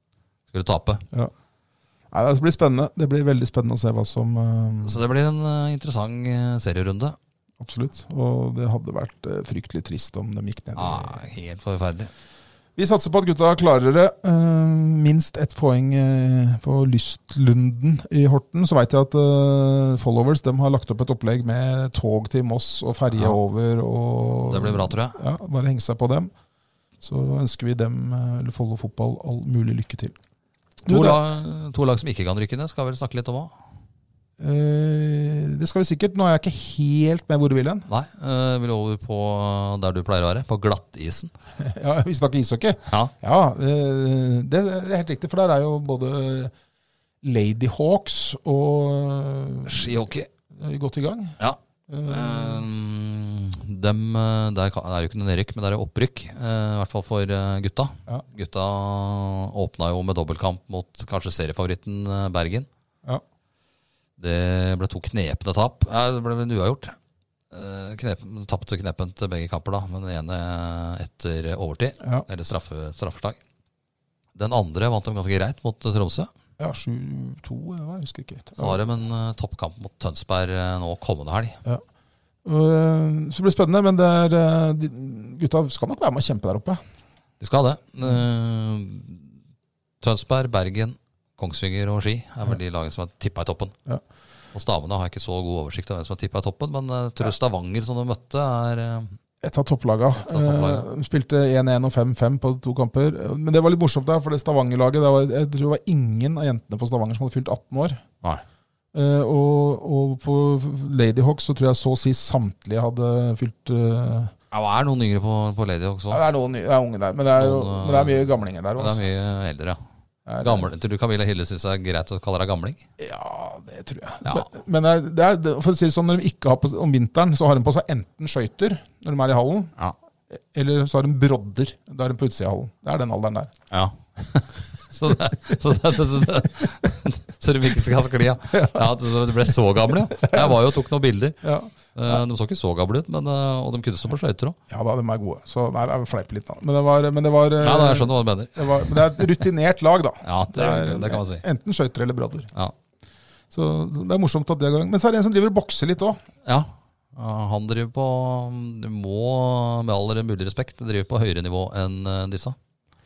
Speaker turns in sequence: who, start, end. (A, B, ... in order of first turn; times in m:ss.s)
0:00.5-0:01.0 A
0:02.1-0:05.0 B
0:04.8-0:07.2 A
0:07.6-0:11.2 B
0:10.8-0:12.1 A
0:12.8-0:26.3 B
0:23.1-0:23.4 A
0:24.5-0:25.2 A
0:27.0-0:30.2 B
0:30.8-0:31.2 B
0:30.9-0:33.5 A
0:34.4-0:37.9 B
0:37.9-0:41.3 A
0:41.6-0:46.5 B
0:47.2-0:52.6 B
0:49.7-0:50.3 A
0:51.4-1:02.7 A
1:04.2-1:06.9 A
1:07.5-1:13.4 A
1:14.4-1:16.3 A
1:16.6-1:18.8 B
1:18.6-1:21.6 A
1:22.4-1:26.8 B
1:27.4-1:29.3 A
1:30.0-1:33.7 A
1:34.5-1:39.2 A
1:39.4-1:48.0 B
1:40.2-1:40.9 A
1:48.9-1:54.3 B
1:54.5-1:56.2 A
1:56.1-1:59.0 B
1:57.3-1:59.8 A
2:00.2-2:00.7 B
2:00.4-2:02.8 A
2:03.0-2:09.7 B
2:10.3-2:13.5 B
2:13.7-2:24.6 A
2:18.5-2:18.9 B
2:20.1-2:20.7 B
2:21.4-2:22.2 B
2:24.7-2:32.5 B
2:27.6-2:29.4 A
2:30.2-2:31.4 A
2:33.5-2:36.2 B
2:36.4-2:42.6 A